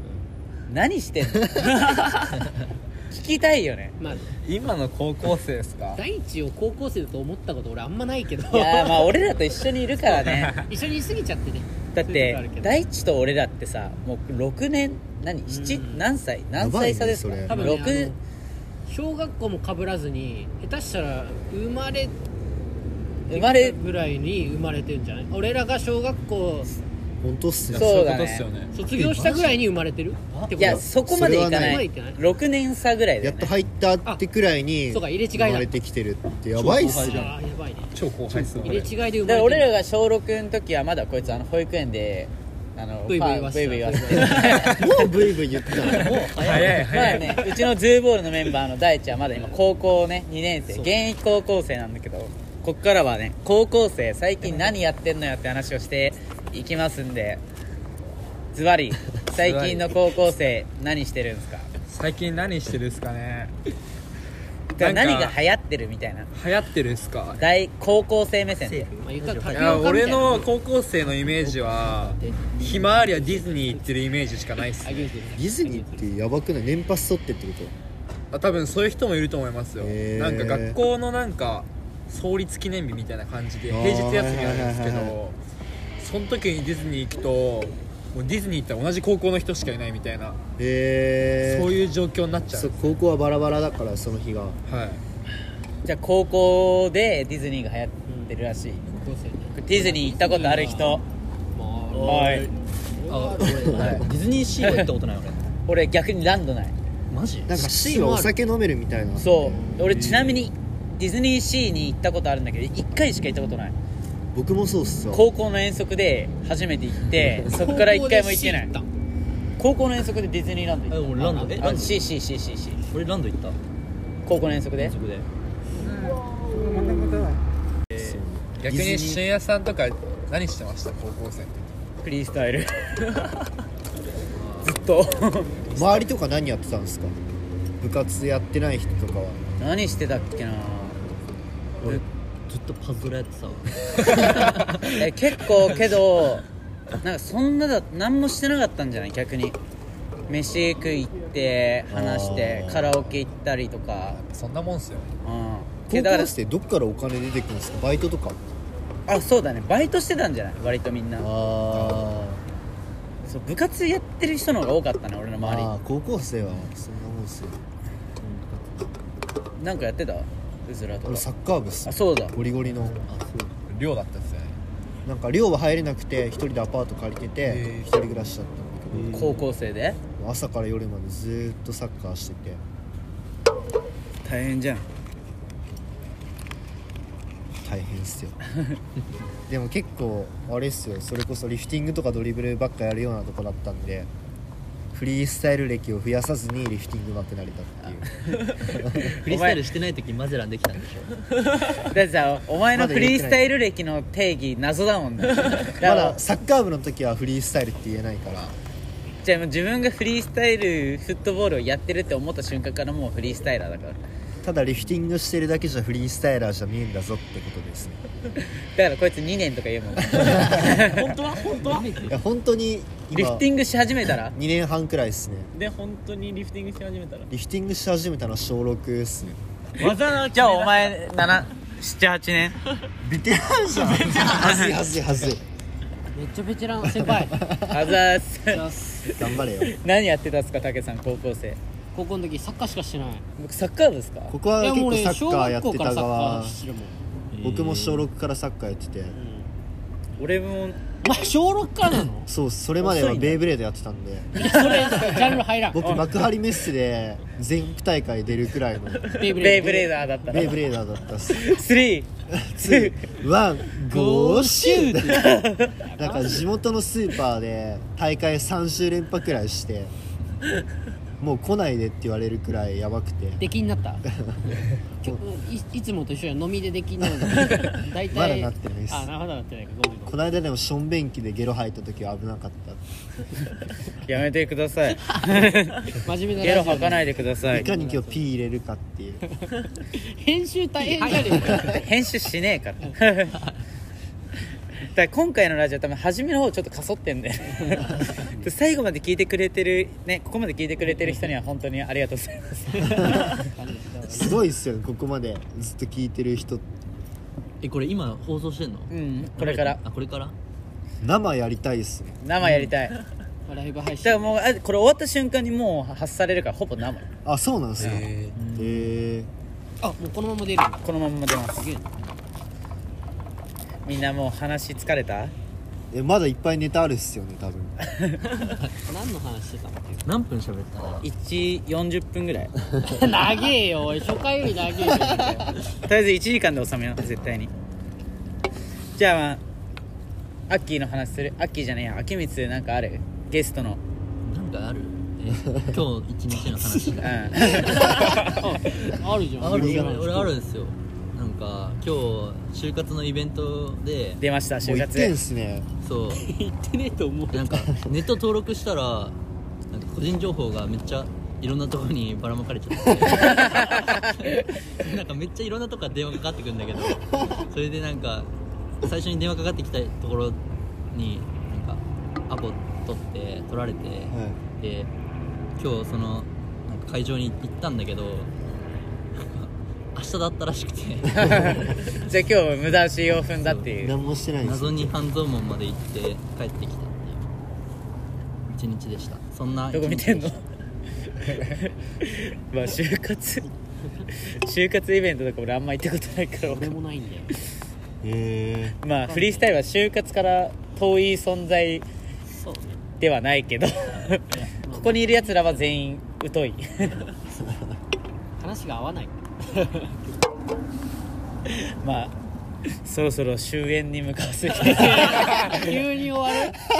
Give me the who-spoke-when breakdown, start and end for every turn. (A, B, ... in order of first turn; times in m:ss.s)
0:00.7-0:02.4 A
0:03.1-0:04.0 A
0:04.0-0:04.3 B
0:04.4-0:06.0 C
0:05.9-0:09.4 B
0:08.5-0:10.5 A
0:10.0-0:10.7 C
0:10.6-0:12.9 B
0:11.9-0:18.1 A
0:15.5-0:16.0 B
0:16.6-0:17.8 D
0:17.5-0:18.2 B
0:18.8-0:22.1 B
0:23.3-0:23.8 A
0:23.3-0:26.7 B
0:27.2-0:28.0 D
0:27.7-0:28.7 C
0:27.8-0:28.5 A
0:28.7-0:30.8 B
0:28.8-0:29.6 E
0:30.5-0:31.8 D
0:30.6-0:33.5 A
0:31.5-0:32.4 B
0:33.2-0:37.2 D
0:34.9-0:35.7 B
0:36.6-0:37.4 C
0:36.6-0:39.8 B
0:36.8-0:37.3 E
0:37.9-0:38.9 C
0:39.2-0:44.9 A
0:43.1-0:44.8 B
0:44.6-0:46.2 D
0:45.8-0:47.3 E
0:46.3-0:47.6 C
0:46.8-0:57.4 A
0:58.5-1:01.7 A
0:59.4-0:59.8 E
1:01.9-1:03.5 C
1:04.8-1:06.3 A
1:04.8-1:05.4 C
1:06.3-1:07.4 C
1:07.4-1:08.9 A
1:08.6-1:10.5 E
1:09.0-1:10.5 B
1:09.5-1:15.2 C
1:11.1-1:13.2 E
1:11.4-1:14.0 B
1:14.8-1:16.1 B
1:15.3-1:17.7 D
1:18.3-1:25.4 C
1:19.8-1:20.8 D
1:23.7-1:25.2 D
1:26.0-1:30.4 C
1:30.6-1:31.7 D
1:31.4-1:33.0 C
1:32.5-1:34.6 D
1:34.7-1:35.0 C
1:35.8-1:38.8 A
1:38.1-1:38.4 B
1:38.9-1:41.0 B
1:39.5-1:41.0 A
1:41.5-1:43.9 B
1:41.9-1:42.4 F
1:42.0-1:42.5 A
1:43.0-1:45.5 E
1:45.7-1:46.7 A
1:47.1-1:47.6 E
1:47.5-1:50.4 D
1:47.6-1:48.3 B
1:49.2-1:53.8 A
1:54.3-1:55.2 D
1:55.1-1:58.7 A
1:57.4-1:58.9 B
1:59.6-2:02.8 A
2:00.9-2:02.0 E
2:01.2-2:01.6 B
2:02.9-2:03.6 E
2:04.2-2:05.0 A
2:04.8-2:05.3 E
2:05.8-2:07.4 C
2:07.9-2:11.7 C
2:08.0-2:09.2 D
2:12.0-2:13.0 A
2:14.6-2:15.6 A
2:15.7-2:17.1 D
2:17.8-2:19.4 D
2:19.6-2:21.0 A
2:22.5-2:25.1 E
2:24.9-2:26.4 A
2:27.0-2:29.6 A
2:30.3-2:34.2 A
2:31.9-2:33.2 D
2:34.1-2:35.1 C
2:35.2-2:36.3 A
2:35.9-2:38.4 D
2:39.1-2:41.3 A
2:41.2-2:42.4 D
2:41.7-2:42.0 C
2:43.2-2:45.7 A
2:45.4-2:47.6 D
2:48.2-2:48.9 E
2:49.6-2:51.2 A
2:51.0-2:53.0 D
2:51.8-2:52.4 A
2:52.7-2:53.6 E
2:53.6-2:54.6 C
2:55.0-2:59.4 D
2:57.5-2:57.9 C
2:59.1-3:00.0 A
3:00.2-3:02.6 D
3:04.2-3:04.8 A
3:07.6-3:08.4 D
3:09.5-3:14.1 D
3:14.9-3:18.1 D
3:18.7-3:19.1 D
3:19.0-3:21.2 E
3:19.1-3:19.6 A
3:21.9-3:26.2 A
3:22.7-3:23.4 D
3:25.8-3:28.6 D
3:29.2-3:34.0 A
3:34.4-3:38.0 D
3:38.8-3:41.2 A
3:40.1-3:40.5 D
3:40.8-3:42.0 F
3:42.0-3:43.5 D
3:43.1-3:44.4 A
3:44.3-3:45.5 D
3:45.5-3:47.3 F
3:47.3-3:49.4 D
3:49.8-3:51.0 F
3:50.3-3:52.6 A
3:53.0-3:55.4 D
3:54.2-3:54.7 A
3:56.1-3:57.4 B
3:56.9-3:57.7 D
3:57.7-3:58.7 A
3:58.5-3:59.1 B
3:59.1-3:59.8 D
3:59.7-4:01.6 A
4:01.9-4:03.2 B
4:03.4-4:04.4 A
4:04.3-4:06.6 D
4:04.6-4:07.0 B
4:07.3-4:08.1 E
4:07.4-4:09.2 D
4:09.1-4:09.5 B
4:10.2-4:10.8 A
4:11.0-4:12.3 B
4:12.3-4:14.6 D
4:12.8-4:13.4 A
4:14.4-4:15.9 B
4:14.5-4:15.2 A
4:15.7-4:19.3 D
4:19.1-4:20.4 B
4:19.4-4:20.7 A
4:20.3-4:21.6 D
4:21.3-4:22.1 A
4:22.3-4:25.4 D
4:22.6-4:23.1 A
4:23.9-4:25.4 B
4:25.1-4:25.7 A
4:26.0-4:29.9 D
4:26.0-4:26.4 B
4:31.2-4:33.4 D
4:33.4-4:34.0 B
4:34.2-4:34.5 D
4:35.0-4:40.2 B
4:37.4-4:39.1 D
4:40.1-4:42.8 D
4:44.0-4:47.7 A
4:45.9-4:48.3 B
4:47.4-4:49.2 D
4:49.8-4:51.8 B
4:51.6-4:53.4 A
4:54.8-5:03.4 A
4:57.7-4:58.4 B
5:02.9-5:04.4 B
5:04.1-5:06.6 D
5:07.6-5:10.3 E
5:08.9-5:09.8 A
5:11.0-5:12.2 D
5:12.2-5:13.0 A
5:12.4-5:12.8 E
5:13.5-5:14.4 B
5:14.0-5:17.1 A
5:17.2-5:19.3 D
5:17.8-5:18.9 E
5:17.9-5:18.4 C
5:19.8-5:20.9 B
5:20.8-5:21.7 A
5:21.5-5:21.9 B
5:23.8-5:25.3 A
5:25.9-5:27.8 D
5:27.9-5:28.2 A
5:28.8-5:30.0 B
5:30.0-5:31.1 E
5:31.0-5:32.5 A
5:32.8-5:35.6 B
5:35.8-5:37.5 A
5:39.0-5:39.4 A
5:40.5-5:43.8 A
5:44.2-5:47.8 E
5:47.0-5:47.9 A
5:47.4-5:50.3 B
5:49.4-5:50.2 D
5:49.4-5:54.2 E
5:54.2-5:55.1 A
5:54.6-5:55.7 D
5:55.8-5:56.2 E
5:56.1-5:57.5 B
5:57.3-5:59.2 E
5:57.7-5:58.0 D
5:59.7-6:08.3 E
6:03.2-6:04.4 A
6:08.8-6:14.9 E
6:14.1-6:14.4 D
6:15.6-6:18.3 E
6:19.2-6:21.8 E
6:21.2-6:23.9 A
6:23.4-6:23.7 E
6:23.8-6:25.0 D
6:24.4-6:27.3 E
6:28.5-6:30.4 E
6:29.7-6:30.4 A
6:31.5-6:33.5 A
6:34.2-6:36.7 A
6:36.4-6:37.3 B
6:38.0-6:38.8 D
6:38.8-6:41.8 A
6:39.0-6:39.5 B
6:42.3-6:42.8 B
6:43.0-6:47.0 A
6:44.3-6:45.5 B
6:47.2-6:47.8 D
6:48.4-6:50.2 B
6:51.5-6:52.1 A
6:52.8-6:55.7 A
6:54.6-6:56.6 B